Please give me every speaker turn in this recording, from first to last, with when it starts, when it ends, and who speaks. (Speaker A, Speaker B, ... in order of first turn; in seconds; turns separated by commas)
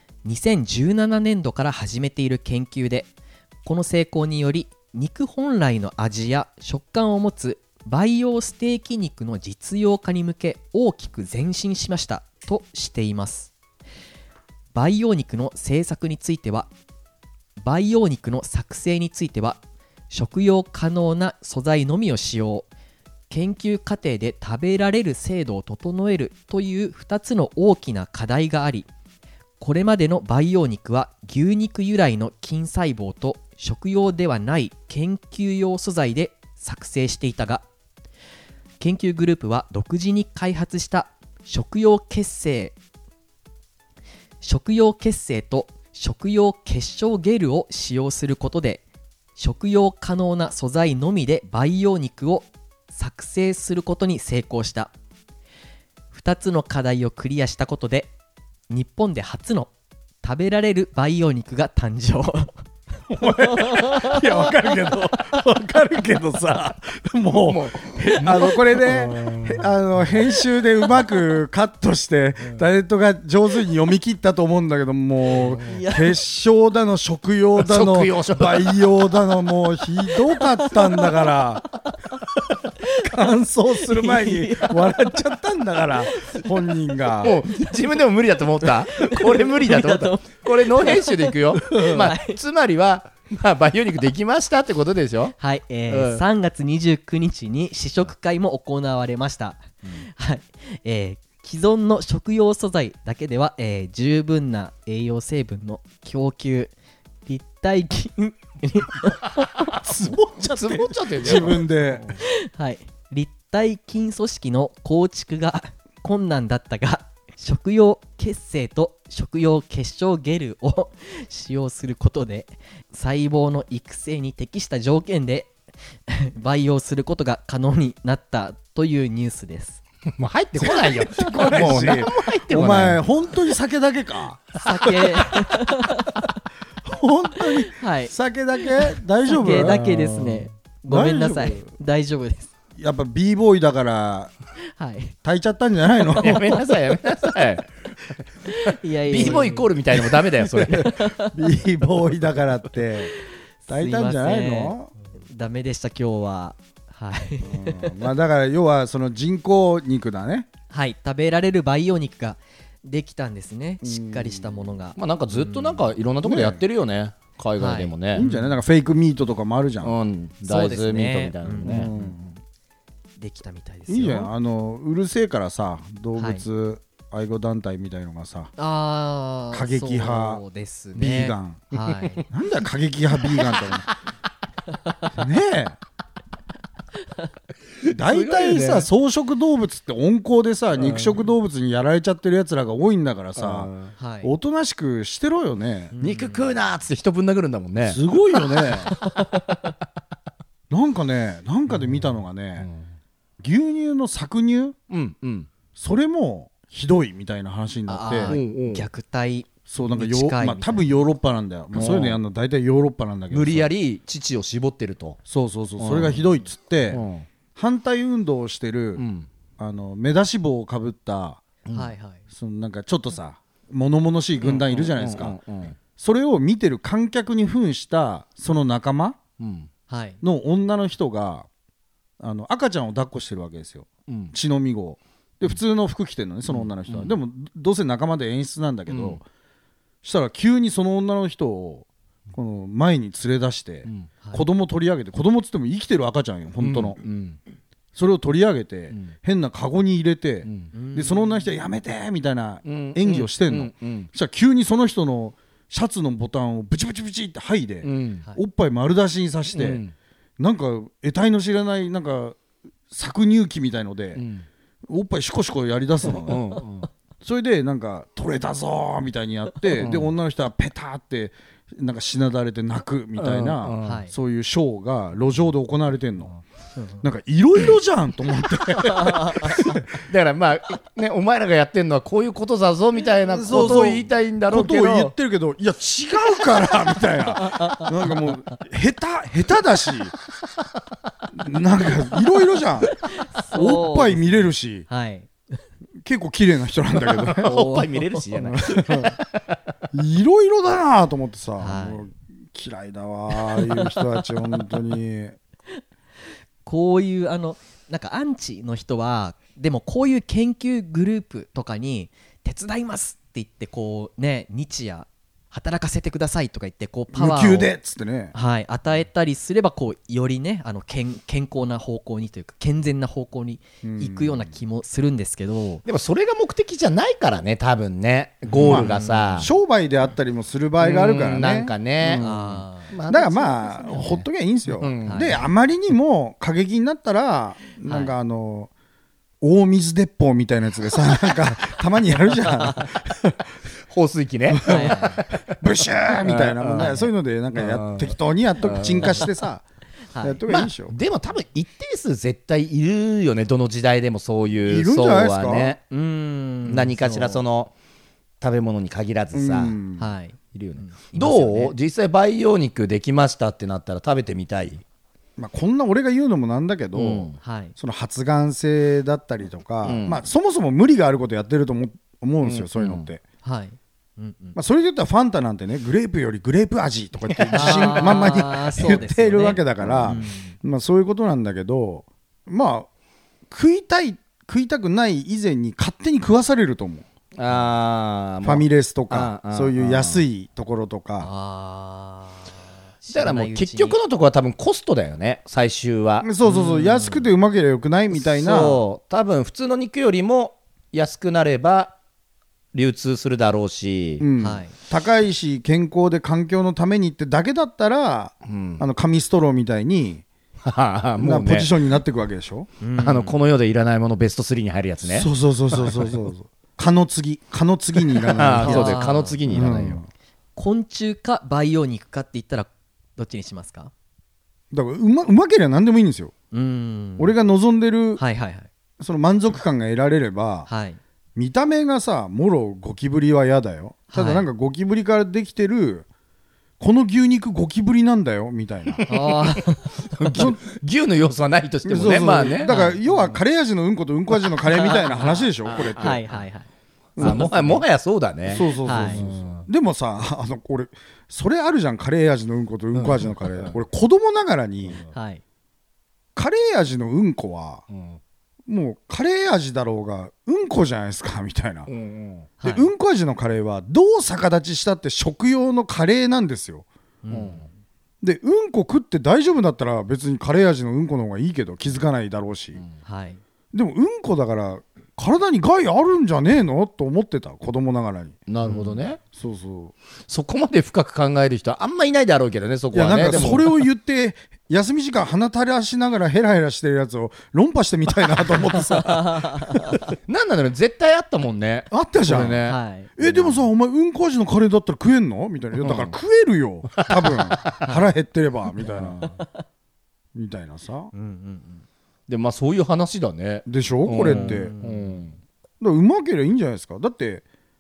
Speaker A: 0.2-3.1, Speaker A: 3.6-13.5, Speaker A: 14.7-16.7, Speaker A: 17.6-22.7, Speaker A: 23.3-28.9, Speaker A: 29.6-37.6, Speaker A: 38.8-42.8, Speaker A: 44.4-48.8, Speaker A: 49.4-54.9, Speaker A: 56.1-58.1, Speaker A: 58.7-59.7, Speaker A: 60.2-62.6, Speaker B: 63.1-81.7, Speaker A: 63.5-64.2, Speaker C: 67.4-69.7, Speaker C: 75.3-75.8, Speaker A: 75.4-76.2, Speaker C: 77.6-78.8, Speaker A: 80.6-81.0, Speaker A: 82.8-83.1, Speaker B: 83.0-87.4, Speaker A: 83.8-85.1, Speaker A: 86.1-86.5, Speaker C: 87.2-95.4, Speaker A: 88.9-92.4, Speaker A: 95.4-106.7, Speaker C: 95.9-96.2, Speaker A: 107.3-125.5, Speaker C: 109.8-111.7, Speaker B: 110.0-112.1, Speaker A: 126.1-129.8, Speaker C: 130.2-133.0, Speaker B: 130.6-135.0, Speaker A: 134.6-136.3, Speaker B: 136.8-141.7, Speaker A: 137.6-138.1, Speaker A: 138.8-142.5, Speaker B: 142.8-144.3, Speaker A: 144.7-145.2, Speaker B: 145.2-146.6, Speaker C: 146.2-148.2, Speaker A: 146.3-146.6, Speaker A: 148.4-149.7, Speaker C: 149.1-151.0, Speaker B: 150.1-153.1, Speaker A: 150.7-151.3, Speaker A: 153.2-158.0, Speaker B: 153.7-154.9, Speaker B: 157.4-160.5, Speaker A: 160.7-165.8, Speaker B: 163.8-164.6, Speaker C: 165.0-168.3, Speaker B: 166.2-166.6, Speaker A: 167.6-168.5, Speaker B: 168.1-169.9, Speaker C: 169.8-171.9, Speaker A: 170.4-172.2, Speaker B: 171.6-172.3, Speaker A: 173.2-174.3, Speaker B: 173.9-178.5, Speaker A: 176.2-176.4, Speaker A: 178.6-182.3, Speaker B: 179.5-180.4, Speaker B: 180.9-181.7, Speaker B: 182.2-183.9, Speaker B: 185.2-185.8, Speaker C: 187.8-188.9, Speaker B: 187.9-193.7, Speaker C: 190.8-191.2, Speaker C: 193.4-193.9, Speaker A: 194.0-194.3, Speaker B: 194.2-195.9, Speaker A: 195.9-196.5, Speaker C: 196.0-198.0, Speaker B: 197.8-198.9, Speaker A: 198.9-199.5, Speaker B: 200.7-202.7, Speaker C: 201.7-202.1, Speaker C: 202.6-202.9, Speaker B: 203.4-204.8, Speaker C: 204.9-205.5, Speaker B: 205.8-208.4, Speaker A: 207.9-210.9, Speaker C: 208.3-208.8, Speaker B: 209.7-213.7, Speaker C: 211.7-212.2, Speaker C: 213.3-215.2, Speaker B: 215.3-217.0, Speaker C: 215.8-216.2, Speaker C: 216.9-217.3, Speaker B: 217.6-219.0, Speaker C: 219.0-219.3, Speaker B: 219.6-221.4, Speaker A: 221.7-222.2, Speaker B: 222.3-225.4, Speaker C: 224.4-225.8, Speaker B: 226.0-229.2, Speaker C: 229.4-229.7, Speaker A: 229.9-230.2, Speaker B: 230.2-231.5, Speaker B: 232.2-239.2, Speaker C: 234.1-234.3, Speaker C: 236.5-237.2, Speaker C: 238.9-239.2, Speaker B: 240.0-247.0, Speaker C: 246.6-247.4, Speaker B: 247.9-259.8, Speaker C: 250.4-250.7, Speaker A: 250.7-251.5, Speaker C: 252.7-254.1, Speaker C: 257.8-258.2, Speaker C: 259.5-259.9, Speaker B: 260.4-262.4, Speaker B: 262.9-264.2, Speaker C: 264.1-264.5, Speaker B: 264.9-266.5, Speaker C: 266.2-266.9, Speaker B: 267.2-276.3, Speaker C: 269.8-270.1, Speaker C: 273.2-274.0, Speaker A: 273.8-274.1, Speaker A: 276.8-277.0, Speaker B: 277.0-279.8, Speaker A: 278.9-279.6, Speaker C: 279.5-285.1, Speaker B: 283.3-290.1, Speaker A: 287.5-287.9, Speaker B: 291.3-293.0, Speaker A: 293.1-295.3, Speaker B: 293.5-294.9, Speaker B: 296.0-297.6, Speaker C: 297.1-299.6, Speaker A: 297.4-298.5, Speaker B: 298.4-299.2, Speaker B: 299.9-305.4, Speaker A: 301.6-302.1, Speaker A: 303.7-304.0, Speaker A: 306.6-317.7, Speaker B: 317.1-318.3, Speaker A: 318.3-325.8, Speaker B: 323.8-324.5, Speaker C: 325.9-329.5, Speaker A: 328.5-329.4, Speaker B: 328.6-332.5, Speaker C: 330.8-332.3, Speaker A: 332.2-332.9, Speaker C: 332.9-334.2, Speaker B: 333.1-338.7, Speaker C: 334.8-335.4, Speaker A: 335.1-335.4, Speaker A: 337.9-338.1, Speaker B: 339.4-343.4, Speaker C: 343.9-345.5, Speaker B: 344.5-349.6, Speaker A: 344.7-345.2, Speaker C: 346.2-347.0, Speaker A: 346.8-347.1, Speaker C: 347.5-349.3, Speaker A: 350.1-350.4, Speaker B: 350.2-350.9, Speaker C: 350.5-355.8, Speaker B: 354.6-355.8, Speaker A: 355.9-357.4, Speaker C: 356.7-357.7, Speaker C: 358.4-359.8, Speaker B: 359.3-360.1, Speaker A: 360.0-361.7, Speaker C: 360.5-364.8, Speaker B: 365.4-373.2, Speaker C: 366.9-367.4, Speaker A: 367.4-367.8, Speaker C: 369.8-370.2, Speaker C: 372.4-373.1, Speaker A: 373.4-374.6, Speaker B: 374.6-382.9, Speaker C: 377.4-378.4, Speaker A: 377.5-380.6, Speaker C: 379.8-380.2, Speaker B: 383.5-387.1, Speaker C: 387.4-390.2, Speaker B: 388.4-391.3, Speaker A: 391.2-394.0, Speaker C: 393.1-396.3, Speaker B: 396.2-398.8, Speaker A: 396.4-397.3, Speaker C: 398.1-401.9, Speaker C: 402.7-404.2, Speaker B: 404.2-410.2, Speaker A: 404.4-404.8, Speaker C: 408.4-408.8, Speaker C: 410.6-411.7, Speaker B: 411.2-412.7, Speaker A: 412.8-413.4, Speaker C: 413.0-416.1, Speaker B: 415.0-420.1, Speaker C: 418.1-420.0, Speaker A: 418.6-419.4, Speaker A: 420.6-423.9, Speaker B: 424.7-426.3, Speaker A: 426.5-427.4, Speaker B: 427.2-428.2, Speaker A: 428.2-428.7, Speaker B: 429.0-430.7, Speaker A: 430.7-431.0, Speaker B: 431.4-436.1, Speaker A: 434.1-434.5, Speaker B: 436.8-439.1, Speaker A: 439.1-440.5, Speaker C: 440.1-442.7, Speaker B: 440.3-440.6, Speaker B: 441.9-446.2, Speaker A: 442.6-443.0, Speaker A: 444.7-445.4, Speaker C: 444.8-446.4, Speaker A: 446.0-446.7, Speaker B: 447.2-447.8, Speaker C: 447.2-449.7, Speaker A: 447.2-447.5, Speaker B: 448.5-455.0, Speaker A: 448.8-449.2, Speaker C: 452.9-453.7, Speaker A: 455.1-455.4, Speaker B: 456.4-457.8, Speaker C: 457.9-458.2, Speaker B: 458.7-461.9, Speaker C: 461.9-462.5, Speaker A: 462.6-462.9, Speaker B: 462.6-466.9, Speaker A: 467.2-467.7, Speaker C: 467.3-467.6, Speaker B: 468.2-472.8, Speaker A: 473.1-473.4, Speaker B: 473.7-478.4, Speaker C: 478.5-479.2, Speaker B: 479.2-479.9, Speaker C: 480.3-483.7, Speaker B: 482.9-490.0, Speaker A: 489.1-490.0, Speaker C: 490.3-493.6, Speaker B: 491.9-492.6, Speaker A: 492.7-493.1, Speaker B: 493.2-499.2, Speaker C: 495.8-496.1, Speaker C: 497.0-497.8, Speaker C: 498.8-499.4, Speaker B: 500.3-501.1, Speaker A: 501.1-501.9, Speaker C: 502.3-505.4, Speaker B: 503.7-504.7, Speaker A: 504.2-505.2, Speaker B: 505.8-507.4